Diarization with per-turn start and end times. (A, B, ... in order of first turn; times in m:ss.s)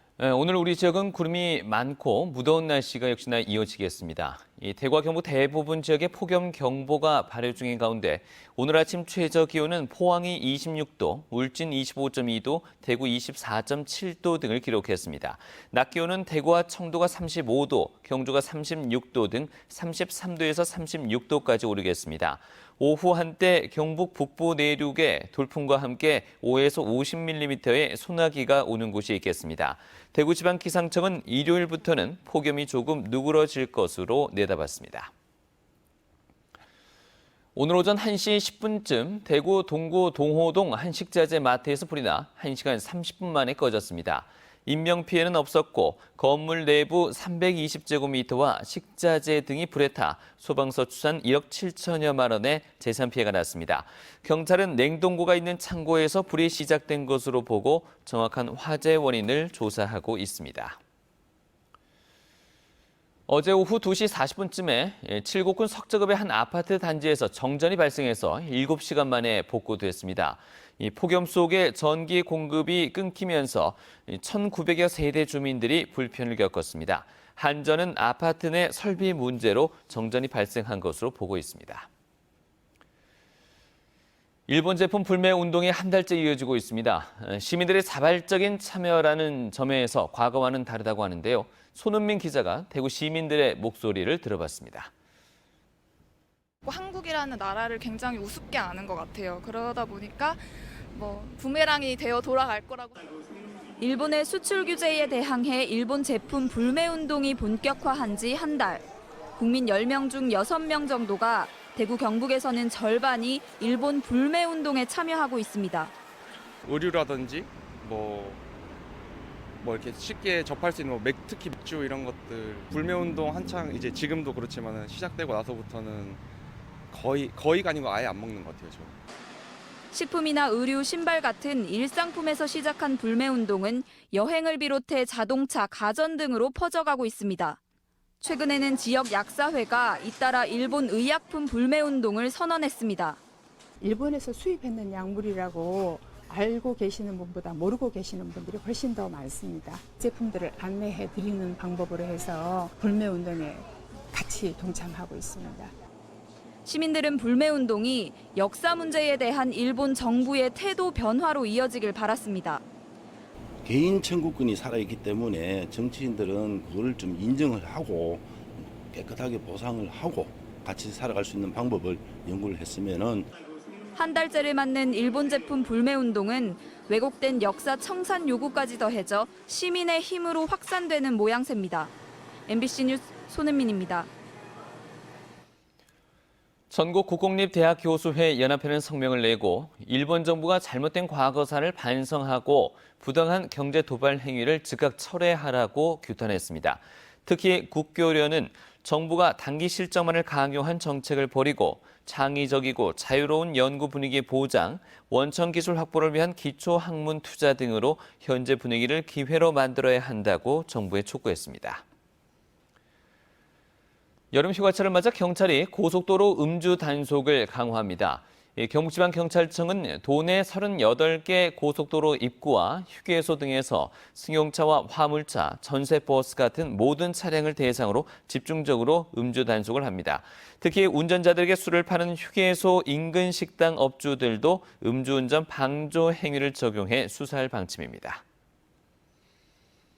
0:00.2-0:35.1 A
0:37.6-1:00.8 A
1:03.3-1:21.9 A
1:24.5-1:34.9 A
1:36.6-1:43.0 B
1:43.8-1:55.9 C
1:56.6-1:58.4 D
1:59.6-2:06.2 D
2:06.9-2:09.0 D
2:09.9-2:17.6 C
2:18.2-2:23.2 C
2:23.8-2:35.7 E
2:36.6-2:42.6 C
2:43.6-2:53.3 F
2:53.9-3:01.9 C
3:02.5-3:04.1 C
3:06.7-3:31.8 A
3:34.3-3:58.2 A